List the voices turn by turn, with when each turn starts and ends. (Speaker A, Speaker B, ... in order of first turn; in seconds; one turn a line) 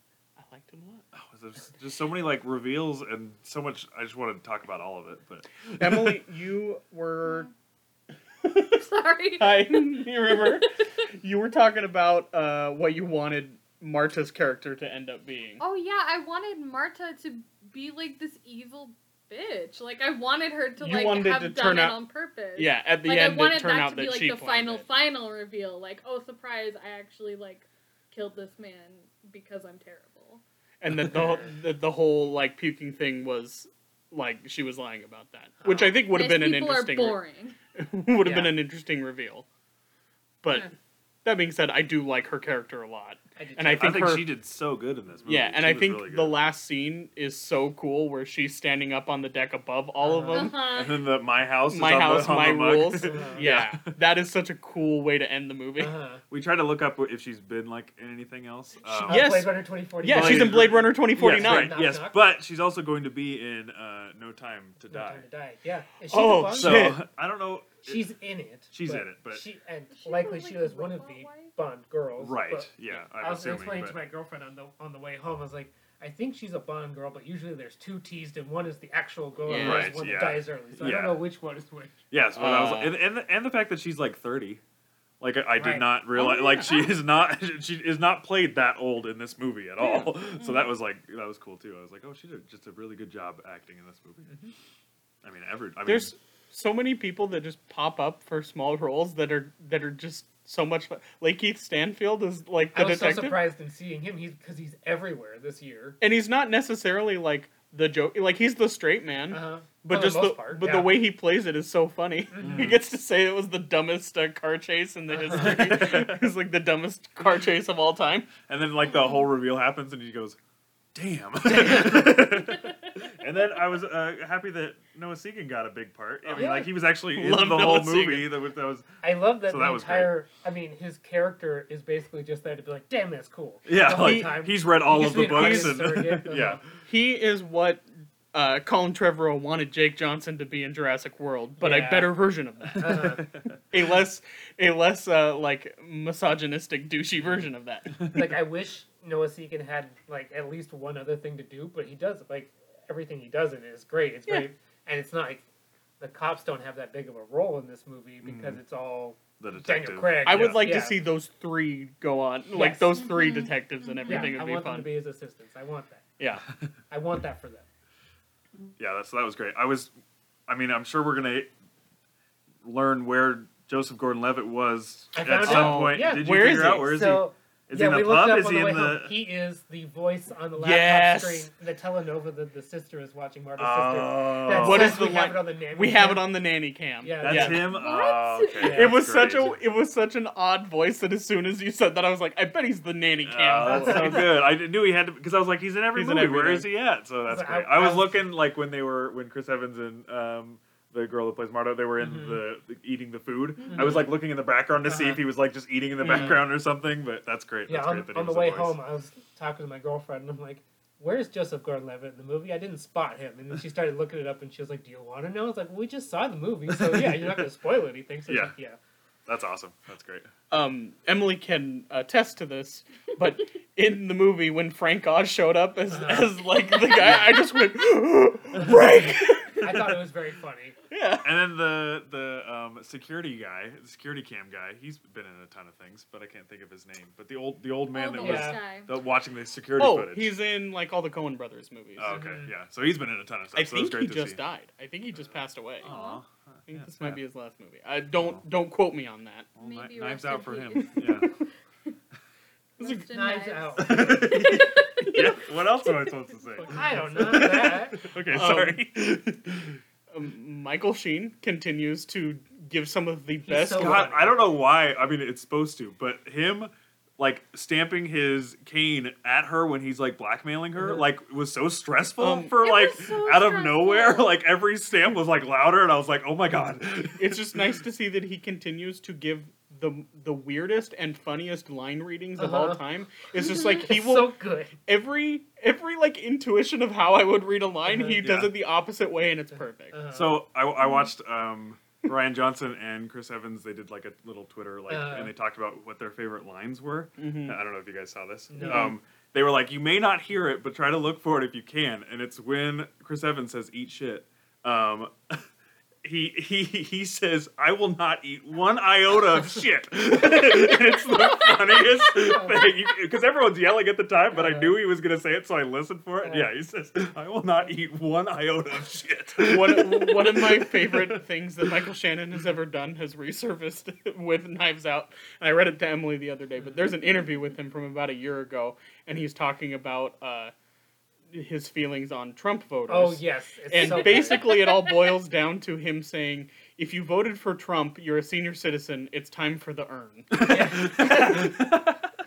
Speaker A: 0.4-1.1
Speaker B: 1.1-6.2
Speaker A: 5.7-7.5
Speaker C: 7.2-7.5
Speaker A: 8.4-8.8
Speaker C: 8.7-10.8
Speaker A: 9.4-15.6
Speaker C: 15.6-30.4
Speaker A: 20.8-22.0
Speaker A: 22.6-24.8
Speaker A: 30.8-37.2
Speaker D: 35.6-35.9
Speaker C: 36.1-37.6
Speaker A: 37.7-39.5
Speaker D: 38.2-38.5
Speaker A: 40.4-40.7
Speaker A: 41.2-44.3
Speaker D: 43.4-44.2
Speaker B: 43.8-46.4
Speaker A: 45.2-50.6
Speaker D: 50.0-50.5
Speaker C: 50.3-51.0
Speaker B: 50.7-53.9
Speaker A: 51.7-55.9
Speaker D: 53.0-53.5
Speaker D: 55.8-56.2
Speaker B: 56.3-59.3
Speaker D: 58.9-62.2
Speaker A: 59.1-61.8
Speaker B: 60.1-65.2
Speaker D: 64.9-67.0
Speaker A: 66.1-67.0
Speaker B: 66.5-68.0
Speaker D: 67.8-82.0
Speaker B: 68.7-69.4
Speaker C: 69.9-71.5
Speaker B: 72.2-74.0
Speaker A: 79.4-80.0
Speaker B: 79.5-81.2
Speaker B: 82.1-84.6
Speaker A: 82.3-83.0
Speaker B: 85.2-94.3
Speaker D: 85.5-85.9
Speaker C: 86.1-86.9
Speaker C: 90.0-90.6
Speaker B: 95.2-96.1
Speaker A: 95.8-103.4
Speaker D: 102.7-106.0
Speaker A: 106.0-118.3
Speaker D: 109.3-110.9
Speaker D: 112.3-112.8
Speaker B: 112.4-112.8
Speaker D: 115.1-115.8
Speaker B: 115.3-116.3
Speaker B: 118.5-120.4
Speaker B: 120.9-128.9
Speaker D: 121.6-122.2
Speaker A: 126.3-128.3
Speaker D: 126.3-126.7
Speaker D: 129.0-136.6
Speaker B: 129.4-130.1
Speaker B: 133.7-136.6
Speaker A: 135.1-135.8
Speaker A: 136.8-143.1
Speaker D: 141.6-142.2
Speaker D: 142.7-143.3
Speaker B: 142.8-143.5
Speaker A: 143.7-148.0
Speaker B: 148.0-148.3
Speaker D: 148.1-155.4
Speaker D: 156.0-161.0
Speaker B: 158.2-158.6
Speaker B: 159.4-160.7
Speaker A: 160.2-164.9
Speaker D: 162.5-163.0
Speaker C: 163.0-164.4
Speaker D: 164.1-166.1
Speaker A: 166.2-166.5
Speaker D: 166.9-167.6
Speaker B: 168.8-169.9
Speaker B: 170.5-171.5
Speaker B: 172.6-179.1
Speaker D: 175.1-186.3
Speaker A: 175.4-177.1
Speaker A: 180.6-181.5
Speaker B: 183.6-185.1
Speaker A: 184.5-187.6
Speaker D: 187.0-187.8
Speaker B: 187.2-189.6
Speaker C: 187.7-188.8
Speaker D: 188.6-188.9
Speaker A: 188.7-194.3
Speaker B: 193.2-208.8
Speaker D: 193.6-194.3
Speaker A: 195.9-196.7
Speaker D: 197.3-198.2
Speaker D: 202.0-202.4
Speaker C: 203.6-204.0
Speaker D: 203.7-204.1
Speaker D: 204.8-205.2
Speaker A: 206.0-206.4
Speaker D: 206.0-206.4
Speaker D: 207.7-218.8
Speaker B: 216.7-217.5
Speaker B: 218.3-218.5
Speaker B: 219.3-220.3
Speaker A: 220.5-229.9
Speaker D: 225.9-226.3
Speaker C: 226.7-227.6
Speaker D: 228.6-230.8
Speaker A: 230.9-231.3
Speaker B: 231.2-240.3
Speaker C: 237.9-238.9
Speaker D: 238.2-238.6
Speaker A: 239.8-242.2
Speaker B: 241.9-244.4
Speaker D: 242.1-242.5
Speaker A: 243.5-245.9
Speaker C: 245.8-246.2
Speaker B: 245.8-247.2
Speaker A: 246.7-249.5
Speaker B: 249.6-251.3
Speaker C: 249.6-251.3
Speaker C: 252.8-256.7
Speaker D: 252.9-254.6
Speaker B: 253.8-259.8
Speaker D: 256.7-258.1
Speaker A: 256.8-258.8
Speaker A: 260.1-264.1
Speaker D: 263.4-264.4
Speaker B: 263.7-277.6
Speaker A: 272.2-272.5
Speaker C: 272.5-274.4
Speaker A: 277.2-284.3
Speaker D: 282.4-282.8
Speaker C: 283.4-283.7
Speaker D: 283.4-284.8
Speaker A: 284.8-289.9
Speaker D: 287.9-288.2
Speaker B: 288.2-288.5
Speaker D: 289.9-290.4
Speaker B: 290.1-305.4
Speaker C: 290.8-291.1
Speaker D: 294.9-295.3
Speaker A: 297.2-297.6
Speaker D: 298.5-298.9
Speaker A: 298.6-298.9
Speaker B: 306.0-321.2
Speaker C: 311.1-311.6
Speaker D: 312.3-312.6
Speaker D: 314.3-314.7
Speaker D: 316.2-316.5
Speaker A: 319.4-330.5
Speaker A: 331.3-341.6
Speaker D: 332.9-334.4
Speaker C: 333.7-335.1
Speaker B: 340.3-342.0
Speaker D: 340.5-341.4